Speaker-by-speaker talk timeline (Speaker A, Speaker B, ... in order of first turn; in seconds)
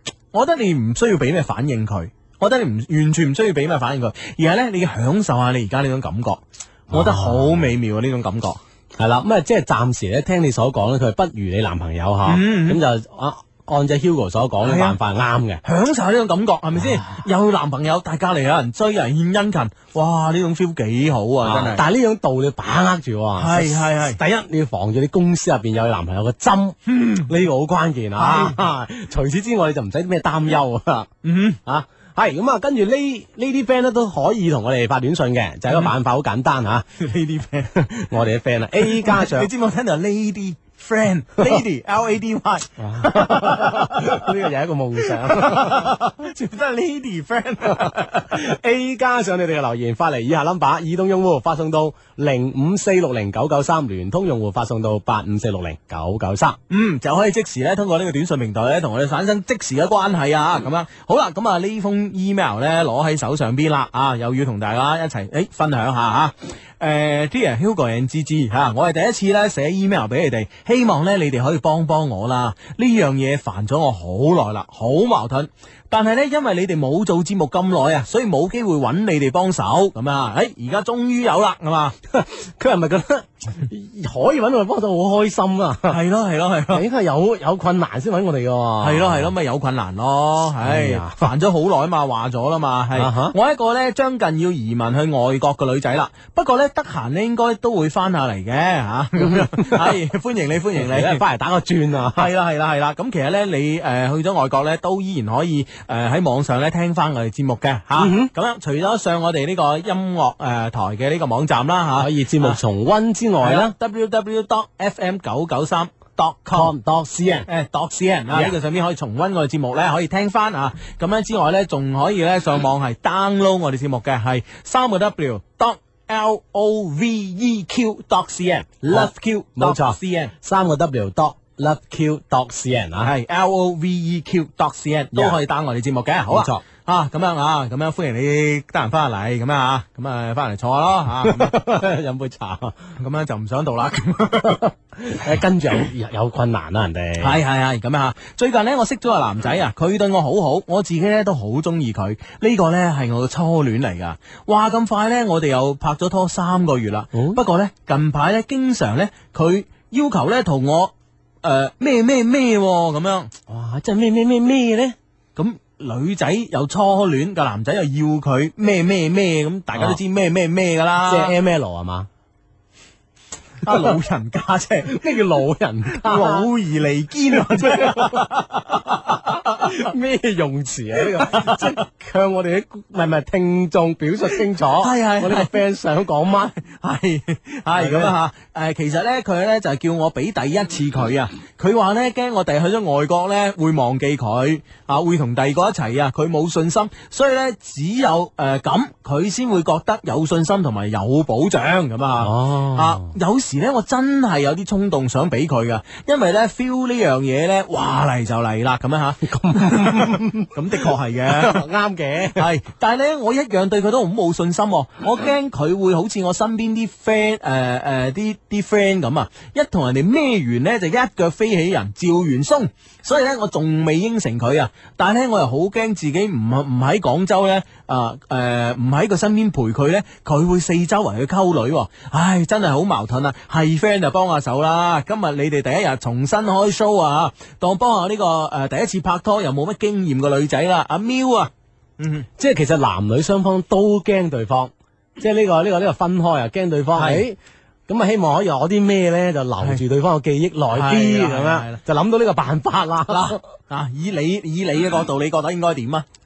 Speaker A: 0.3-8.6, 12.2-12.8, 14.6-15.0, 15.6-21.8, 23.4-24.2, 26.9-27.3, 28.2-28.6, 31.2-31.6, 37.0-37.7, 38.8-44.0, 45.3-48.3, 56.7-82.0, 85.9-86.8, 88.8-101.2, 102.1-112.6, 113.4-116.7, 117.5-130.3, 133.0-141.5, 143.0-144.6, 147.2-163.3, 165.4-171.3, 173.6-175.0, 175.9-178.8, 181.2-181.7, 184.8-185.6, 186.6-210.0, 210.6-211.6, 212.4-242.3, 246.9-247.3, 250.7-251.8, 253.1-256.1
Speaker B: 6.9-7.7, 9.0-15.6, 16.8-17.2, 21.4-26.8, 27.3-31.1, 31.7-36.9, 38.1-39.5, 42.8-45.9, 48.4-56.6, 82.2-86.0, 86.7-89.3, 90.6-91.3, 93.0-93.3, 99.2-100.0, 100.7-102.3, 108.0-108.3, 112.0-113.7, 116.5-117.5, 118.3-118.6, 128.8-133.1, 136.3-136.6, 141.2-142.8, 145.1-147.4, 157.1-157.4, 163.5-164.9, 171.0-172.1, 174.9-176.5, 177.3-178.2, 179.7-186.5, 187.7-188.2, 202.2-203.1, 209.2-210.5, 211.3-212.4, 242.4-247.4, 247.9-253.4